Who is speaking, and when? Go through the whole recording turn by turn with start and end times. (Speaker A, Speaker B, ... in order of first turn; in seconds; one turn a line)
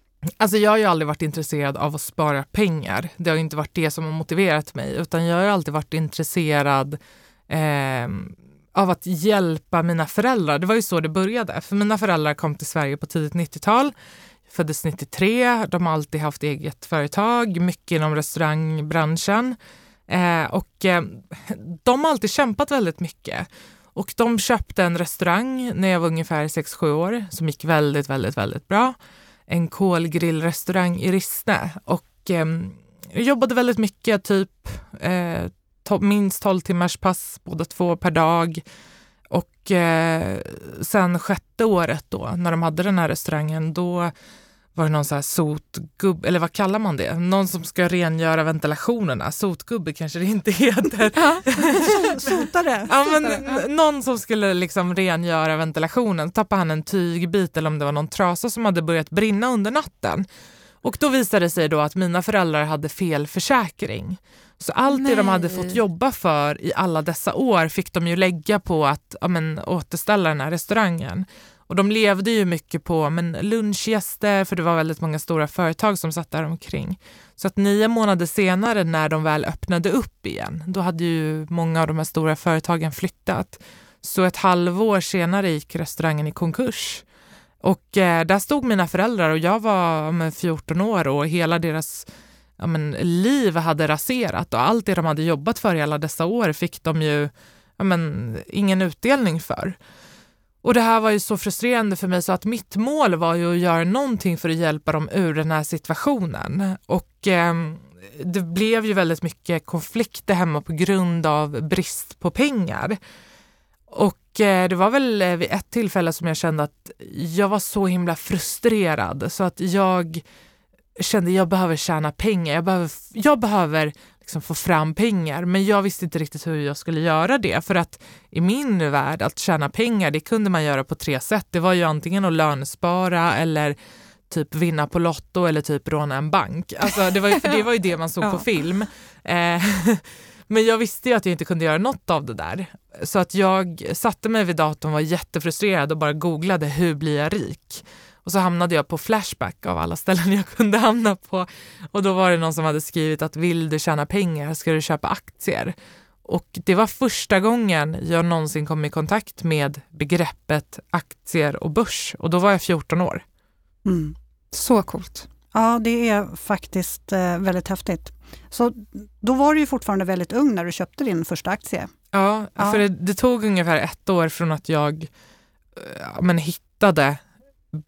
Speaker A: 0.4-13.9
Speaker A: 14.5-19.6
Speaker A: 20.1-29.0
Speaker A: 29.5-38.6
Speaker A: 39.3-44.1
Speaker A: 44.7-60.2
Speaker B: 51.1-52.2
Speaker C: 51.6-53.4
Speaker B: 53.1-53.6
Speaker A: 60.8-87.0
Speaker B: 64.9-65.8
Speaker A: 87.6-92.1
Speaker A: 92.6-99.8
Speaker A: 100.6-113.0
Speaker A: 113.9-120.2
Speaker A: 121.0-133.8
Speaker A: 134.3-155.7
Speaker B: 137.3-137.6
Speaker B: 138.2-138.4
Speaker A: 156.2-163.2
Speaker C: 163.8-164.2
Speaker B: 164.5-165.3
Speaker C: 165.5-171.9
Speaker A: 172.1-175.1
Speaker C: 172.6-172.8
Speaker A: 175.8-177.2